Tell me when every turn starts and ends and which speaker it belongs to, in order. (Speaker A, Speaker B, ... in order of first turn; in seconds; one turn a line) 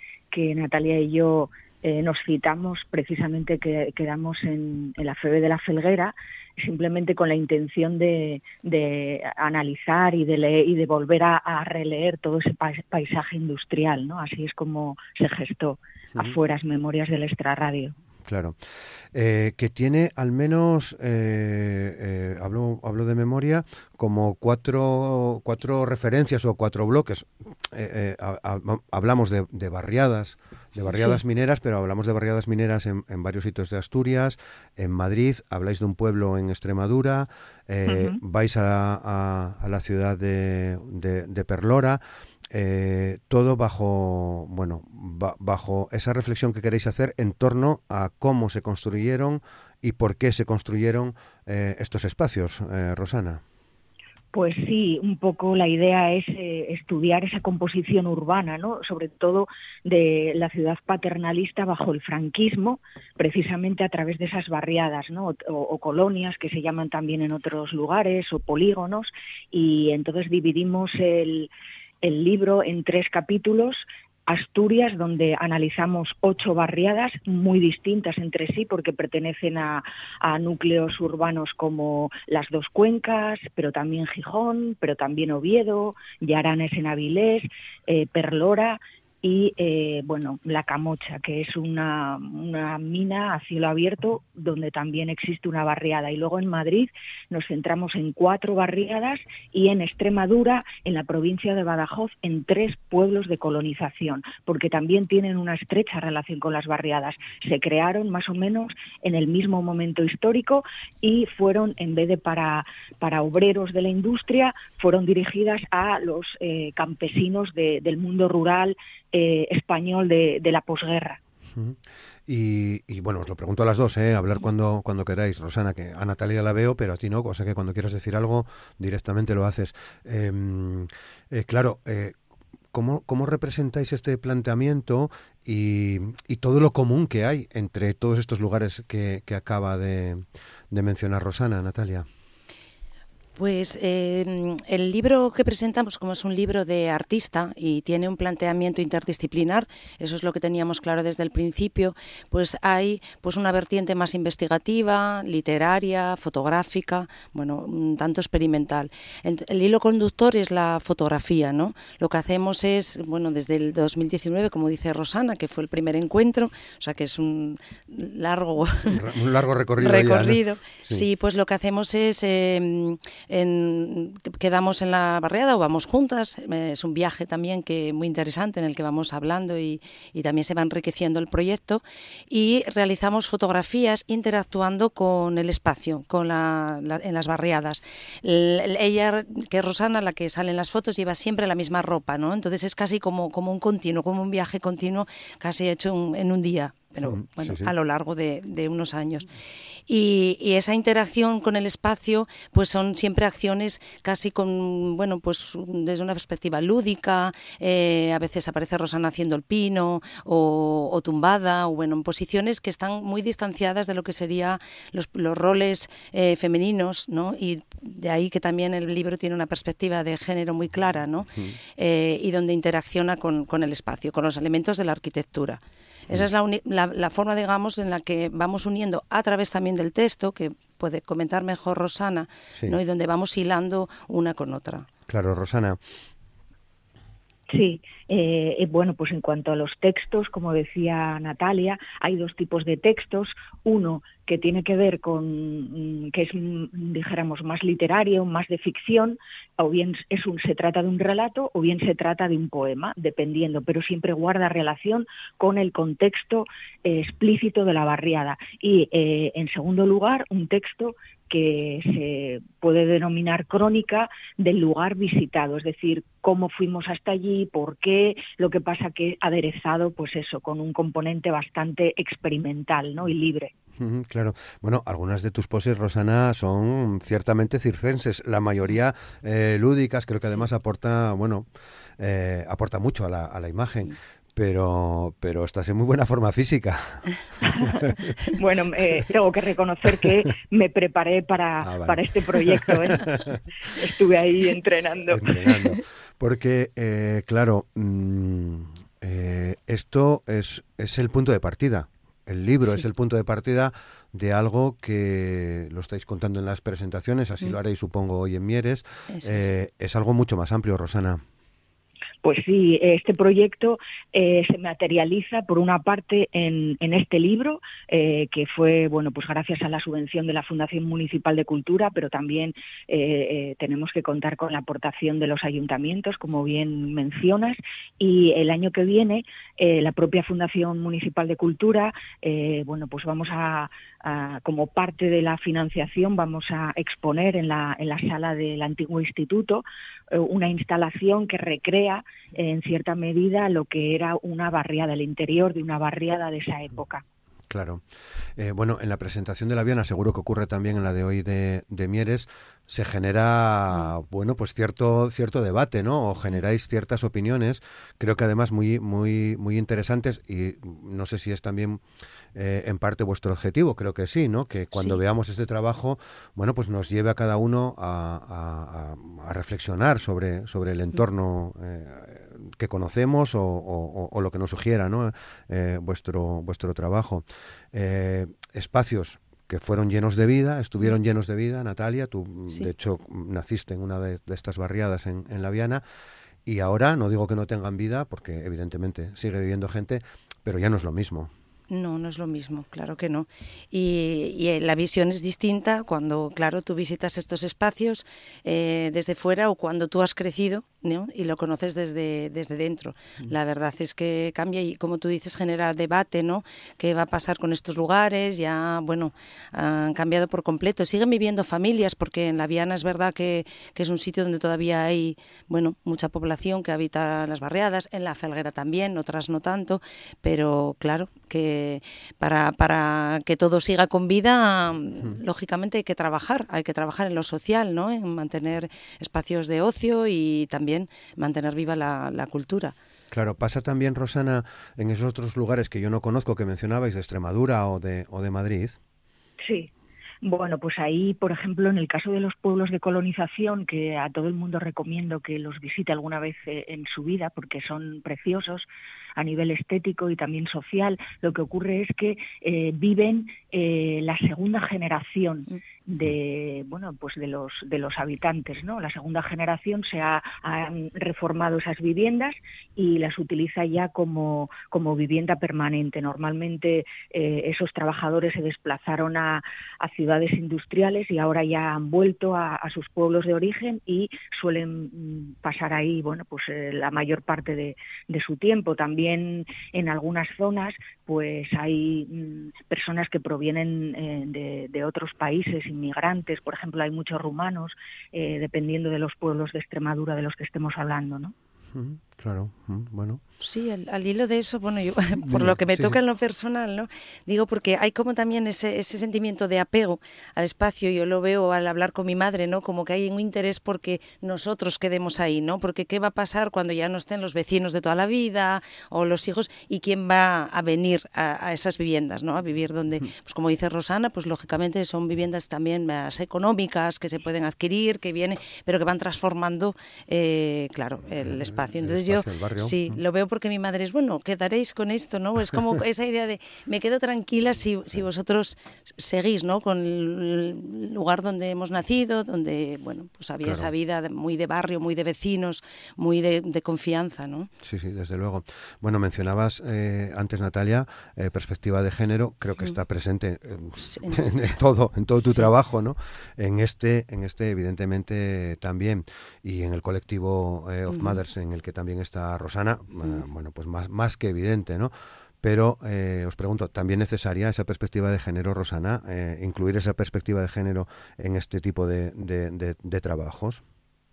Speaker A: 0.3-17.9
Speaker B: 18.2-18.6
Speaker B: 19.1-53.4
Speaker A: 37.9-38.2
Speaker A: 54.3-71.5
Speaker A: 72.0-121.2
Speaker B: 121.5-132.1
Speaker B: 132.7-142.1
Speaker C: 143.3-169.0
Speaker B: 168.9-171.0
Speaker C: 169.8-199.3
Speaker B: 197.0-197.7
Speaker C: 199.9-234.9
Speaker B: 235.1-235.8
Speaker A: 237.5-273.5
Speaker B: 273.8-281.5
Speaker B: 282.0-288.2
Speaker A: 287.4-287.7
Speaker A: 288.4-295.3
Speaker B: 291.6-293.8
Speaker B: 295.1-311.2
Speaker C: 309.1-309.5
Speaker A: 312.2-347.0
Speaker B: 347.5-347.8
Speaker B: 348.4-361.8
Speaker B: 362.3-385.8
Speaker B: 386.4-391.3
Speaker C: 391.7-432.7
Speaker B: 433.1-438.8
Speaker A: 439.4-439.7
Speaker A: 440.2-491.3
Speaker B: 491.7-493.2
Speaker C: 493.4-537.5
Speaker B: 495.2-496.0
Speaker B: 521.2-523.0
Speaker B: 533.4-533.7
Speaker B: 537.6-563.6
Speaker C: 543.8-544.3
Speaker C: 545.2-545.5
Speaker C: 550.9-551.2